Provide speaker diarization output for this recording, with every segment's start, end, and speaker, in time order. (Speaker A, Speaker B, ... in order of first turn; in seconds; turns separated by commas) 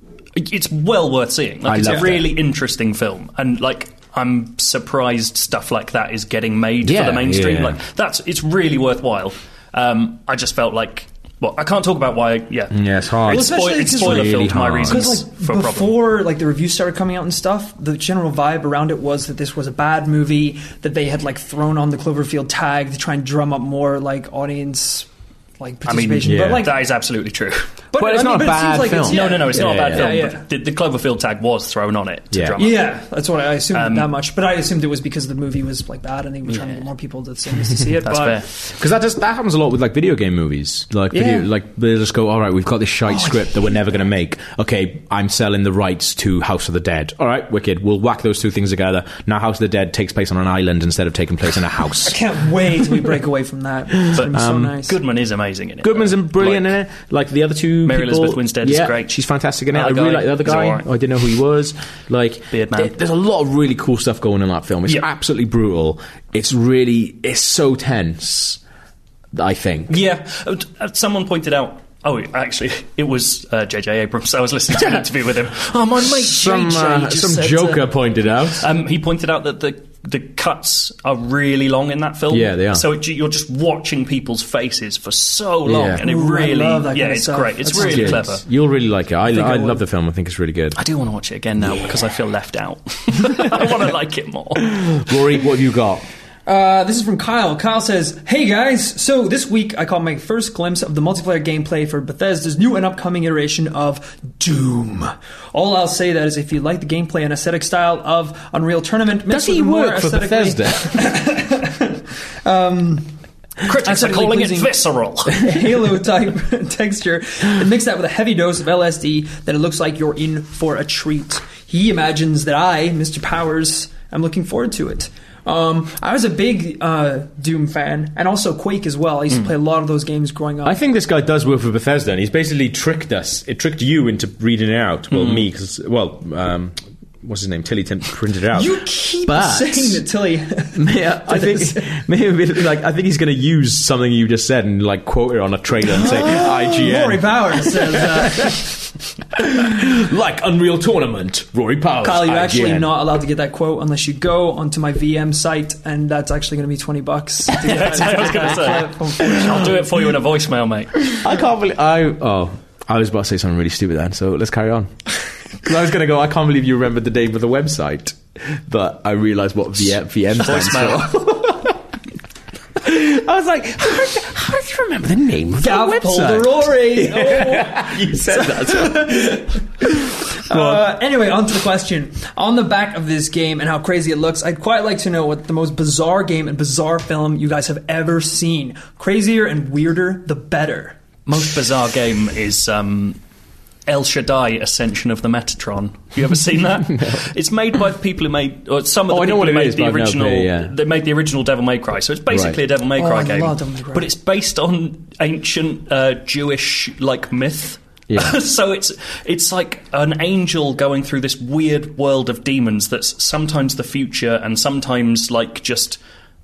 Speaker A: 0.3-16.0, Speaker B: 1.6-2.3, Speaker B: 6.8-7.8, Speaker B: 12.7-15.2, Speaker C: 13.3-25.1, Speaker C: 25.6-26.8, Speaker A: 25.9-27.7, Speaker B: 26.2-26.7, Speaker C: 27.9-30.4, Speaker B: 28.0-30.1, Speaker A: 29.1-33.0, Speaker B: 32.3-32.6, Speaker C: 32.6-38.4, Speaker A: 33.7-34.1, Speaker A: 36.5-36.8, Speaker A: 38.0-38.5, Speaker B: 38.7-52.2, Speaker C: 41.1-41.5, Speaker C: 43.1-43.6, Speaker C: 52.0-55.0, Speaker A: 54.1-56.7, Speaker B: 54.1-54.8, Speaker B: 55.8-68.6, Speaker A: 57.8-59.1, Speaker A: 59.7-60.9, Speaker A: 62.5-62.9, Speaker B: 69.3-70.0, Speaker A: 69.9-77.8, Speaker B: 76.0-78.6, Speaker A: 78.6-88.4, Speaker B: 82.3-82.8, Speaker B: 85.6-86.0, Speaker C: 86.0-88.3, Speaker B: 87.7-90.8, Speaker C: 89.3-89.8, Speaker A: 90.8-94.8, Speaker B: 94.6-96.0, Speaker C: 96.5-113.1, Speaker B: 109.3-111.2, Speaker A: 113.6-115.5, Speaker C: 113.6-130.8, Speaker B: 130.6-138.7, Speaker A: 135.1-135.4, Speaker C: 138.5-142.0, Speaker B: 139.2-140.0, Speaker B: 140.7-152.9, Speaker C: 145.9-148.8, Speaker C: 152.0-160.1, Speaker A: 157.6-161.1, Speaker B: 159.2-159.6, Speaker B: 161.2-165.0, Speaker B: 165.6-171.8, Speaker A: 170.4-171.2, Speaker B: 172.8-180.8, Speaker C: 175.6-191.0, Speaker A: 191.2-193.2, Speaker A: 193.9-216.0, Speaker B: 196.9-197.2, Speaker B: 199.1-200.7, Speaker B: 202.3-202.6, Speaker C: 202.9-204.1, Speaker B: 208.1-208.4